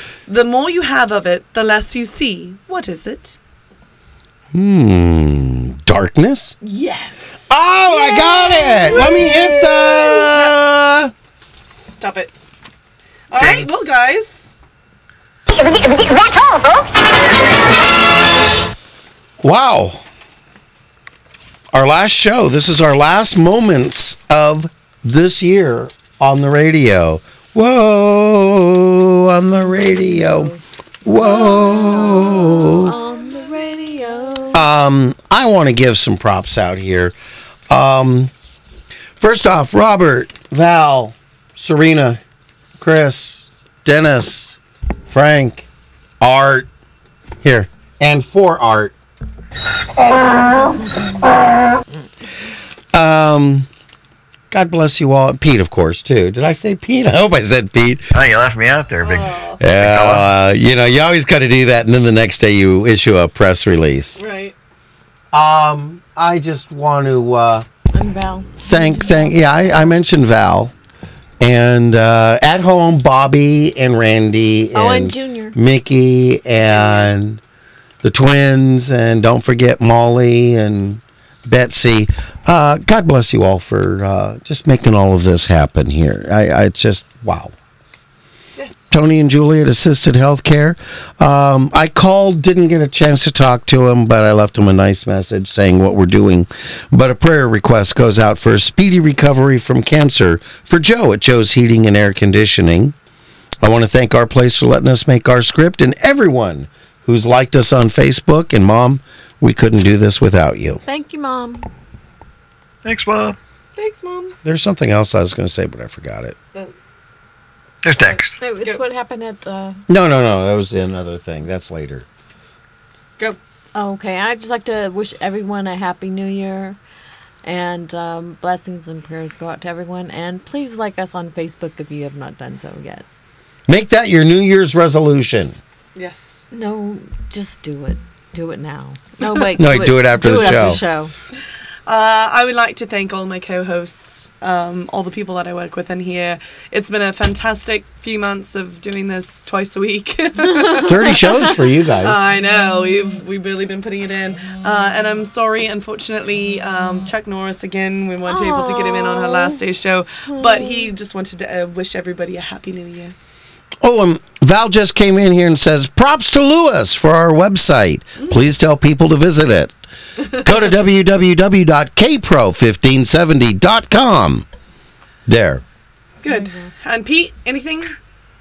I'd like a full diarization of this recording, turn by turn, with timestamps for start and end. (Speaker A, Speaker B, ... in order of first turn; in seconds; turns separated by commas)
Speaker A: 0.3-3.4, Speaker B: 4.5-6.5, Speaker A: 6.6-7.5, Speaker B: 7.5-11.1, Speaker C: 7.9-9.7, Speaker A: 8.7-10.6, Speaker A: 11.7-12.3, Speaker A: 13.3-14.6, Speaker B: 19.4-20.0, Speaker B: 21.7-30.5, Speaker C: 29.8-34.6, Speaker B: 31.1-33.0, Speaker B: 34.5-37.1, Speaker B: 37.7-38.3, Speaker B: 39.2-42.2, Speaker B: 42.8-45.7, Speaker B: 46.2-46.7, Speaker B: 47.4-48.9, Speaker B: 52.9-53.7, Speaker B: 54.5-58.1, Speaker D: 58.1-60.3, Speaker A: 59.0-59.6, Speaker B: 59.6-64.2, Speaker A: 64.2-64.5, Speaker B: 65.3-67.7, Speaker C: 67.9-69.8, Speaker B: 68.6-70.7, Speaker B: 71.4-77.4, Speaker C: 74.7-75.6, Speaker B: 78.0-87.5, Speaker A: 88.6-88.9, Speaker B: 88.9-102.9, Speaker B: 103.6-110.8, Speaker C: 110.9-111.7, Speaker D: 112.8-113.4, Speaker A: 113.8-114.4, Speaker B: 114.4-116.4, Speaker D: 117.8-118.4, Speaker A: 118.0-118.8, Speaker C: 118.4-119.8, Speaker B: 119.9-122.0, Speaker C: 123.8-126.8, Speaker C: 127.4-133.1, Speaker B: 133.7-135.6, Speaker A: 135.9-136.5, Speaker C: 136.5-141.1, Speaker B: 139.6-140.8, Speaker A: 141.9-151.3, Speaker C: 150.5-151.4, Speaker B: 150.9-152.2, Speaker A: 152.0-163.2, Speaker C: 158.3-159.6, Speaker C: 160.3-160.9, Speaker B: 163.8-169.8, Speaker B: 170.3-174.4, Speaker B: 175.3-175.6, Speaker A: 176.2-178.0, Speaker C: 176.3-176.6